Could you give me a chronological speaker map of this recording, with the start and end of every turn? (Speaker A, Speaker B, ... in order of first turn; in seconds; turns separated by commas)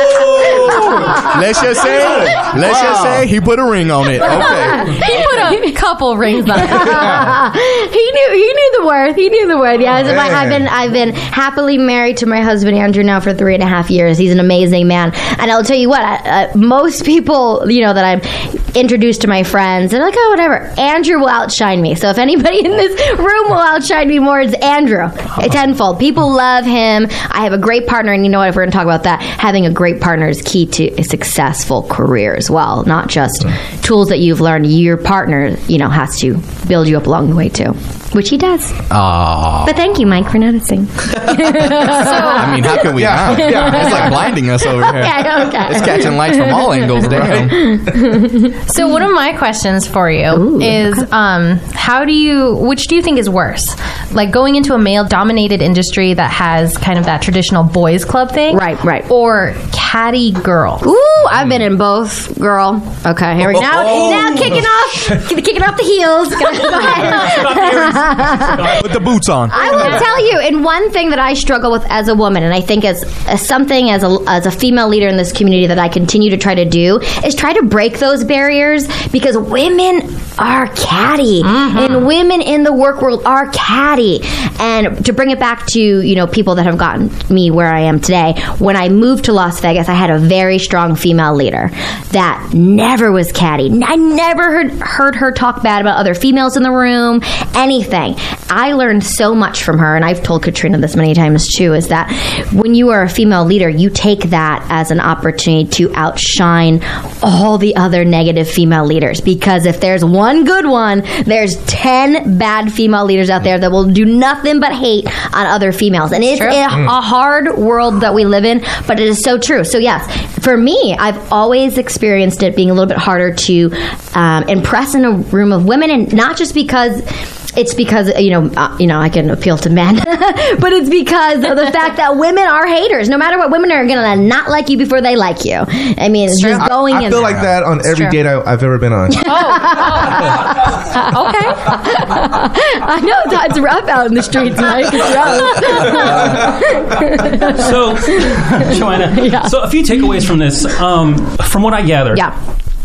Speaker A: 0.2-1.2, Speaker B: 0.9-1.2, Speaker C: 1.0-5.0, Speaker A: 2.0-3.3, Speaker B: 4.3-5.6, Speaker D: 4.5-7.2, Speaker B: 6.5-38.8, Speaker A: 10.0-10.7, Speaker C: 38.9-39.8, Speaker B: 39.6-48.5, Speaker A: 41.6-42.0, Speaker D: 41.9-42.6, Speaker C: 42.3-47.8, Speaker A: 42.9-45.1, Speaker A: 47.0-47.7, Speaker D: 48.7-60.9, Speaker B: 50.3-51.0, Speaker B: 58.5-59.1, Speaker B: 60.8-68.8, Speaker E: 63.8-64.7, Speaker E: 66.4-70.0, Speaker C: 68.8-69.6, Speaker B: 69.5-127.0, Speaker D: 81.4-82.1, Speaker D: 116.3-116.6, Speaker B: 127.6-137.5, Speaker D: 136.3-136.7, Speaker A: 136.6-139.3, Speaker D: 137.9-138.2, Speaker B: 139.1-149.5, Speaker D: 139.2-140.4, Speaker D: 141.0-141.7, Speaker E: 147.5-152.3